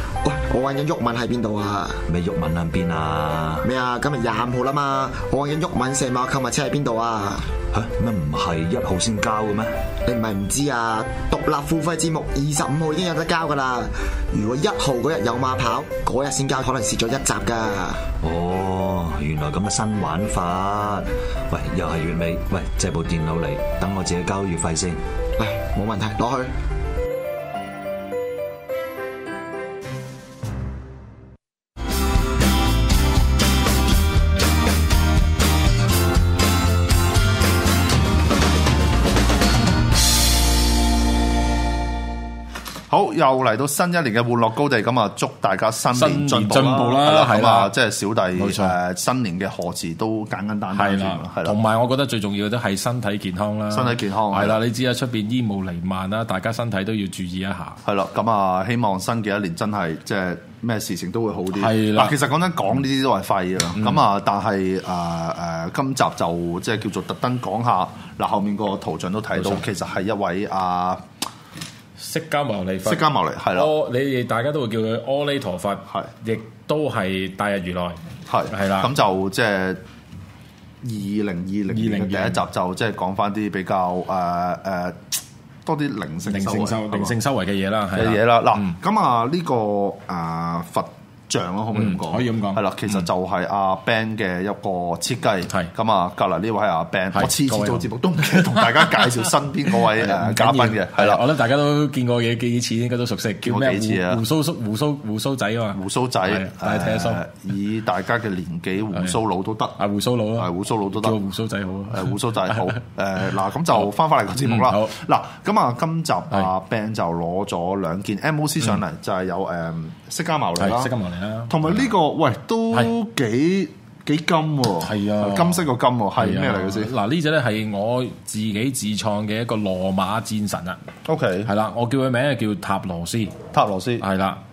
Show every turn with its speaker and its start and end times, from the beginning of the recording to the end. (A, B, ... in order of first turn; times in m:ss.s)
0:00.2-0:02.0 A
0:02.1-0:03.6 B
0:03.6-0:07.5 A
0:07.7-0:09.7 B
0:10.0-0:18.1 A
0:18.2-0:25.0 B
0:25.4-0:26.5 A
0:42.9-0:51.6 C
0:45.9-0:47.7 D
0:48.3-0:48.7 D
0:50.7-0:57.8 D
0:53.7-0:54.6 C
0:57.8-1:11.0 C
1:01.5-1:02.2 D
1:09.4-1:09.6 D
1:12.0-1:18.9 D
1:12.8-1:13.7 C
1:18.3-1:19.8 C
1:20.8-1:27.2 C
1:21.7-1:22.4 D
1:26.2-1:28.8 D
1:27.9-1:41.2 C
1:31.7-1:32.6 D
1:37.1-1:47.2 D
1:43.4-1:44.2 C
1:45.7-1:49.8 C
1:49.8-1:52.8 D
1:50.4-1:51.2 C
1:51.9-2:00.9 C
1:54.4-1:54.9 D
2:00.6-2:01.9 D
2:01.5-2:06.9 C
2:04.8-2:05.6 D
2:06.2-2:10.8 D
2:11.0-2:11.5 C
2:11.4-2:13.4 D
2:13.5-2:14.0 C
2:14.0-2:14.4 D